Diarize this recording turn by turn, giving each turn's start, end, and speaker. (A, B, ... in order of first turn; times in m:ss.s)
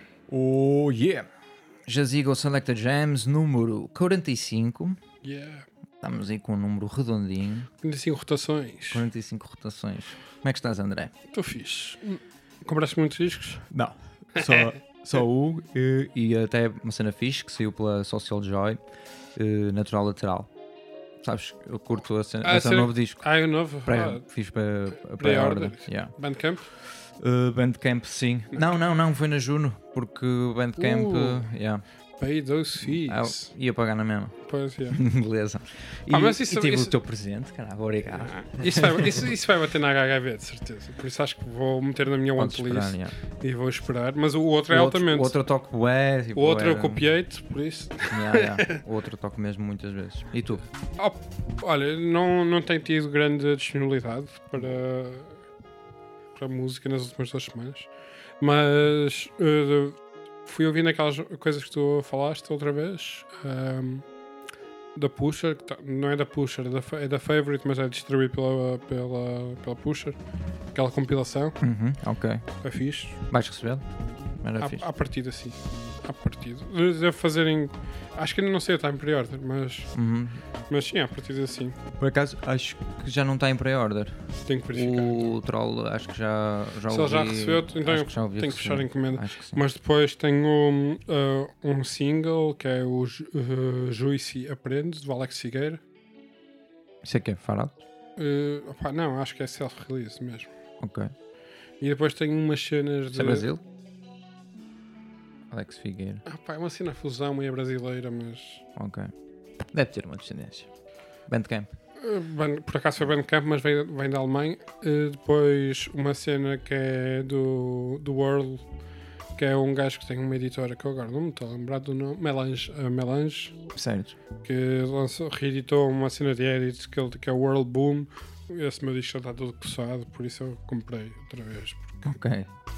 0:00.3-0:01.3 A
0:01.9-0:05.0 A
0:05.2-0:05.6 B
0:06.0-0:07.7 A
0:07.8-0:09.0 B
0:08.9-0:11.1 A
0:11.3-0:13.7 B
0:13.7-0:18.8 A
0:14.4-0:14.7 B
0:19.4-0:20.5 A
0:21.2-0:26.2 A
0:22.4-0:24.3 B
0:25.0-0:26.7 B
0:27.1-0:31.8 A
0:30.8-0:31.5 B
0:32.2-0:33.6 B
0:32.8-0:39.1 A
0:34.4-0:35.0 B
0:36.1-0:37.0 B
0:38.1-0:45.4 B
0:42.4-0:43.1 A
0:44.7-0:47.0 A
0:46.4-0:48.8 B
0:48.1-0:50.6 A
0:51.0-0:55.4 B
0:56.4-1:04.2 B
1:05.0-1:10.2 B
1:10.7-1:11.6 B
1:11.6-1:12.7 A
1:12.6-1:13.2 B
1:13.3-1:14.8 A
1:14.6-1:20.0 B
1:19.9-1:20.4 A
1:20.7-1:21.8 B
1:22.0-1:29.6 A
1:24.4-1:25.4 B
1:26.9-1:35.8 B
1:37.0-1:37.8 A
1:38.2-1:40.5 B
1:40.8-1:41.1 A
1:41.8-1:43.5 B
1:43.1-1:43.6 A
1:45.5-1:46.2 A
1:46.3-1:48.6 B
1:48.8-1:49.1 A
1:49.6-1:50.7 A
1:51.3-1:51.7 A
1:52.0-1:58.7 B
1:59.4-2:03.7 B
2:03.8-2:04.2 A
2:04.4-2:12.0 B
2:12.0-2:12.5 A